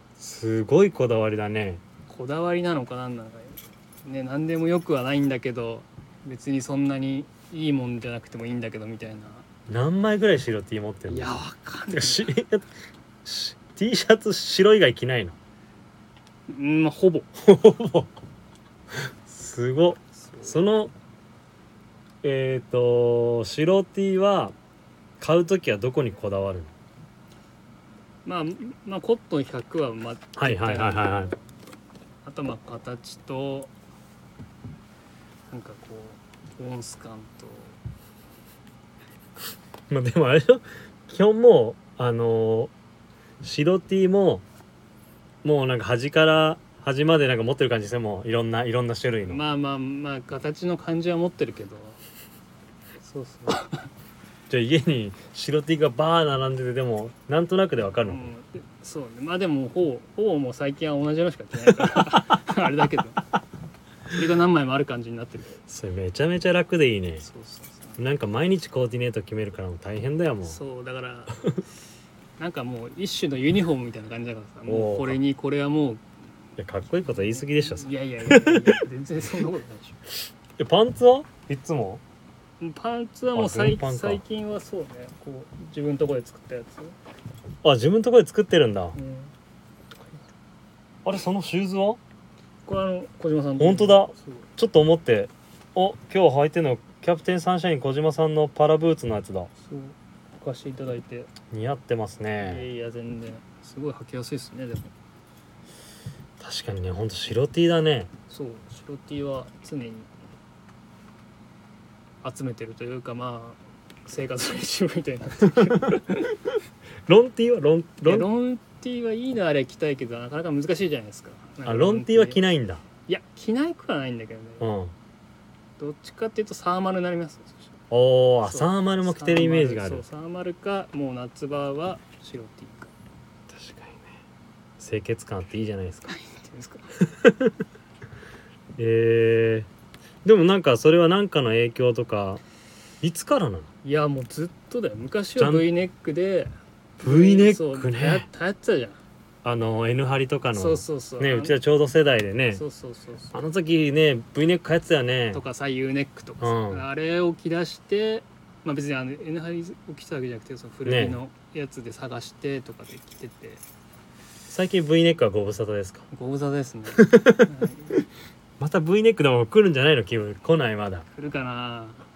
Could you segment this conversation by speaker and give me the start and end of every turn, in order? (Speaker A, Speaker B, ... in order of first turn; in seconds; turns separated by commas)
Speaker A: 0.2-1.8, Speaker B: 2.1-9.4, Speaker A: 9.7-12.7, Speaker B: 11.1-12.3, Speaker A: 13.2-15.3, Speaker B: 16.5-17.3, Speaker A: 17.4-18.1, Speaker A: 19.2-20.9, Speaker B: 20.1-20.6, Speaker A: 22.2-24.5, Speaker A: 25.2-26.7, Speaker B: 28.2-31.4, Speaker A: 30.4-31.3, Speaker B: 32.2-33.7, Speaker B: 35.5-37.8, Speaker A: 39.9-42.7, Speaker A: 43.4-44.4, Speaker A: 45.4-49.4, Speaker B: 49.2-52.0, Speaker B: 53.0-53.9, Speaker A: 54.5-58.3, Speaker B: 58.0-63.2, Speaker B: 64.1-65.6, Speaker A: 65.7-67.3, Speaker B: 67.2-68.0, Speaker A: 68.0-70.6, Speaker B: 70.4-71.4, Speaker B: 72.4-76.0, Speaker A: 74.7-75.2, Speaker A: 76.6-78.8, Speaker B: 77.0-80.0, Speaker A: 80.6-82.0, Speaker B: 82.6-87.0, Speaker A: 83.3-84.2, Speaker A: 87.6-89.0, Speaker B: 88.9-89.3, Speaker A: 91.0-92.0, Speaker B: 92.6-94.4, Speaker A: 93.6-99.5, Speaker B: 99.6-101.3, Speaker A: 101.5-102.7, Speaker B: 102.4-104.9, Speaker A: 106.4-108.1, Speaker B: 108.3-110.1, Speaker B: 112.2-116.3, Speaker A: 117.1-118.3, Speaker B: 118.0-122.4, Speaker A: 121.7-122.8, Speaker B: 123.1-124.7, Speaker A: 124.6-124.9, Speaker B: 125.8-127.8, Speaker A: 127.9-130.0, Speaker B: 128.4-132.9, Speaker A: 133.5-134.0, Speaker A: 134.8-136.1, Speaker B: 136.1-136.9, Speaker A: 137.0-137.5, Speaker A: 138.8-139.7, Speaker A: 140.2-142.4, Speaker A: 143.0-143.7, Speaker B: 143.8-149.0, Speaker A: 145.4-145.7, Speaker A: 147.0-148.3, Speaker A: 149.4-152.6, Speaker B: 150.5-151.6, Speaker B: 152.5-153.4, Speaker A: 153.3-155.4, Speaker B: 155.3-163.6, Speaker A: 156.4-156.8, Speaker A: 160.8-161.2, Speaker A: 164.5-166.1, Speaker B: 166.1-168.0, Speaker A: 166.9-167.5, Speaker A: 168.6-171.1, Speaker B: 171.1-172.0